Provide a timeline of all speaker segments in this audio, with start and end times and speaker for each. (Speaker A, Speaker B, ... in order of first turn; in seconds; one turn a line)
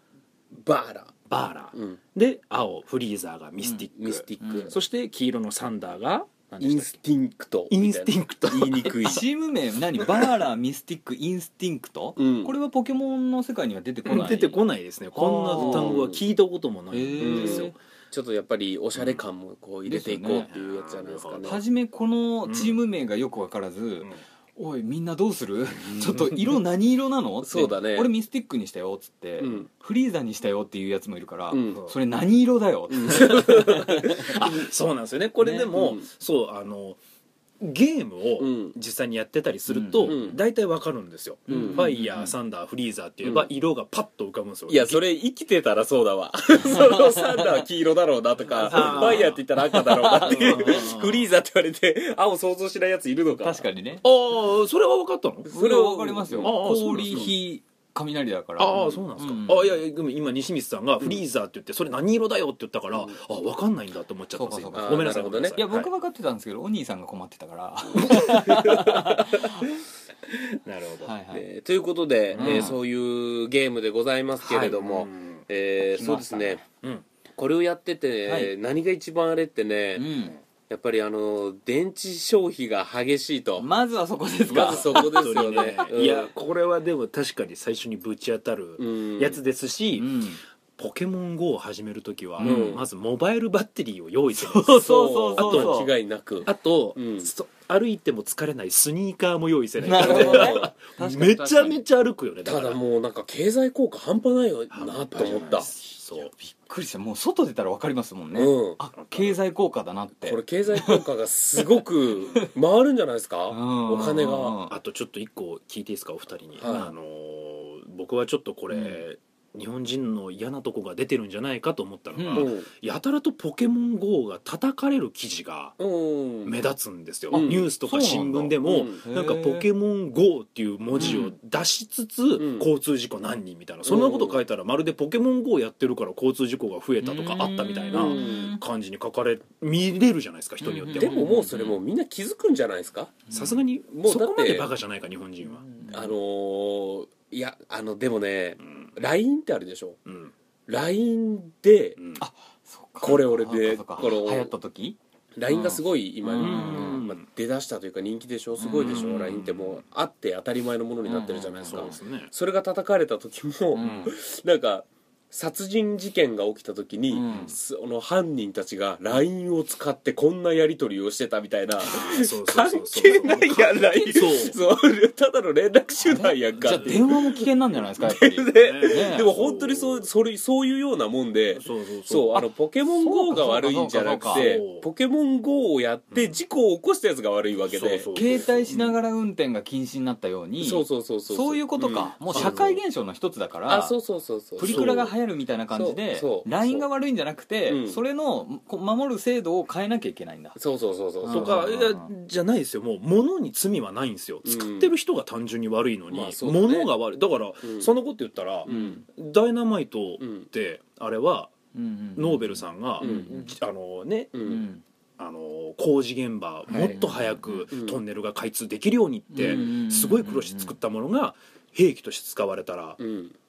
Speaker A: 0.5-1.1
Speaker B: 1.3-7.0
Speaker A: 1.7-2.0
Speaker A: 4.0-4.8
Speaker C: 4.4-4.7
Speaker A: 6.6-9.2
Speaker B: 7.7-9.2
Speaker C: 8.8-14.6
Speaker A: 12.2-12.5
Speaker B: 14.0-17.7
Speaker C: 15.1-16.0
Speaker A: 15.5-16.2
Speaker C: 16.9-17.7
Speaker A: 17.2-21.6
Speaker C: 19.9-20.5
Speaker B: 20.3-21.6
Speaker C: 21.4-34.6
Speaker B: 22.4-22.8
Speaker A: 27.4-28.1
Speaker A: 29.4-29.7
Speaker A: 31.5-31.8
Speaker A: 32.9-34.7
Speaker B: 33.1-37.0
Speaker A: 35.4-36.0
Speaker B: 37.6-45.0
Speaker A: 38.4-38.7
Speaker C: 39.7-40.3
Speaker A: 40.0-40.4
Speaker C: 41.5-42.3
Speaker A: 41.5-41.8
Speaker A: 43.2-43.5
Speaker A: 44.7-53.6
Speaker C: 46.7-47.4
Speaker C: 48.5-51.1
Speaker B: 48.6-49.4
Speaker B: 50.3-51.2
Speaker C: 53.4-54.0
Speaker B: 54.0-55.5
Speaker A: 55.5-57.3
Speaker C: 55.5-59.8
Speaker B: 56.4-57.3
Speaker B: 58.6-65.9
Speaker A: 62.9-63.2
Speaker C: 64.3-69.6
Speaker A: 64.7-65.6
Speaker B: 68.0-68.3
Speaker A: 68.5-69.0
Speaker B: 70.6-71.1
Speaker C: 71.0-71.5
Speaker A: 71.3-76.6
Speaker B: 72.3-72.8
Speaker C: 72.4-72.8
Speaker B: 74.4-75.4
Speaker C: 75.9-76.6
Speaker A: 77.4-80.1
Speaker C: 78.2-78.5
Speaker C: 80.0-80.4
Speaker A: 80.7-83.7
Speaker C: 83.6-85.9
Speaker A: 84.5-86.3
Speaker B: 84.5-95.8
Speaker A: 88.8-89.4
Speaker C: 90.0-90.4
Speaker C: 92.4-92.8
Speaker A: 92.4-92.8
Speaker C: 94.4-95.9
Speaker A: 94.7-97.3
Speaker B: 96.4-102.8
Speaker C: 99.8-100.7
Speaker A: 99.9-101.8
Speaker A: 102.4-105.7
Speaker B: 104.7-106.3
Speaker C: 106.2-111.0
Speaker A: 108.3-108.8
Speaker B: 109.0-109.4
Speaker A: 110.2-114.6
Speaker C: 113.5-114.7
Speaker B: 114.7-125.8
Speaker A: 116.6-116.9
Speaker C: 116.7-116.9
Speaker C: 118.7-119.0
Speaker C: 122.1-122.5
Speaker A: 122.3-122.7
Speaker A: 125.8-126.6
Speaker B: 126.4-141.4
Speaker A: 127.3-127.7
Speaker C: 127.8-129.7
Speaker A: 128.6-129.0
Speaker C: 130.9-131.3
Speaker A: 132.4-132.7
Speaker A: 133.8-134.3
Speaker C: 137.0-138.6
Speaker A: 137.9-138.5
Speaker C: 140.6-141.8
Speaker A: 140.9-143.2
Speaker C: 143.3-143.6
Speaker B: 143.3-145.6
Speaker A: 143.9-144.7
Speaker C: 145.6-146.1
Speaker A: 145.9-150.0
Speaker B: 150.1-150.3
Speaker A: 150.7-152.0
Speaker B: 152.0-152.2
Speaker C: 152.2-157.0
Speaker A: 153.0-154.5
Speaker A: 155.3-188.1
Speaker B: 156.4-157.2
Speaker C: 158.6-159.4
Speaker B: 158.7-159.8
Speaker C: 161.1-162.0
Speaker B: 161.6-162.3
Speaker C: 163.7-164.1
Speaker B: 163.8-164.1
Speaker C: 167.1-167.5
Speaker B: 167.3-167.5
Speaker B: 171.8-174.6
Speaker C: 176.0-179.3
Speaker B: 176.6-177.8
Speaker B: 178.4-180.1
Speaker B: 181.5-182.5
Speaker C: 182.9-184.5
Speaker B: 184.2-184.9
Speaker B: 186.1-186.4
Speaker B: 187.7-188.9
Speaker C: 188.1-193.9
Speaker A: 190.6-192.6
Speaker B: 192.3-192.8
Speaker A: 193.7-195.1
Speaker C: 194.6-200.6
Speaker B: 194.6-195.1
Speaker A: 195.7-196.9
Speaker A: 197.7-198.0
Speaker A: 200.6-201.7
Speaker C: 201.2-202.1
Speaker B: 201.3-211.5
Speaker A: 204.4-204.9
Speaker A: 206.1-206.9
Speaker A: 207.6-207.9
Speaker A: 208.7-209.0
Speaker C: 208.7-209.0
Speaker A: 210.2-210.4
Speaker C: 211.7-213.4
Speaker B: 212.2-214.5
Speaker A: 213.0-213.3
Speaker A: 214.3-214.7
Speaker C: 214.4-214.8
Speaker B: 215.2-223.0
Speaker C: 216.7-217.7
Speaker A: 217.7-218.0
Speaker C: 219.3-220.8
Speaker A: 219.4-219.7
Speaker A: 223.0-223.3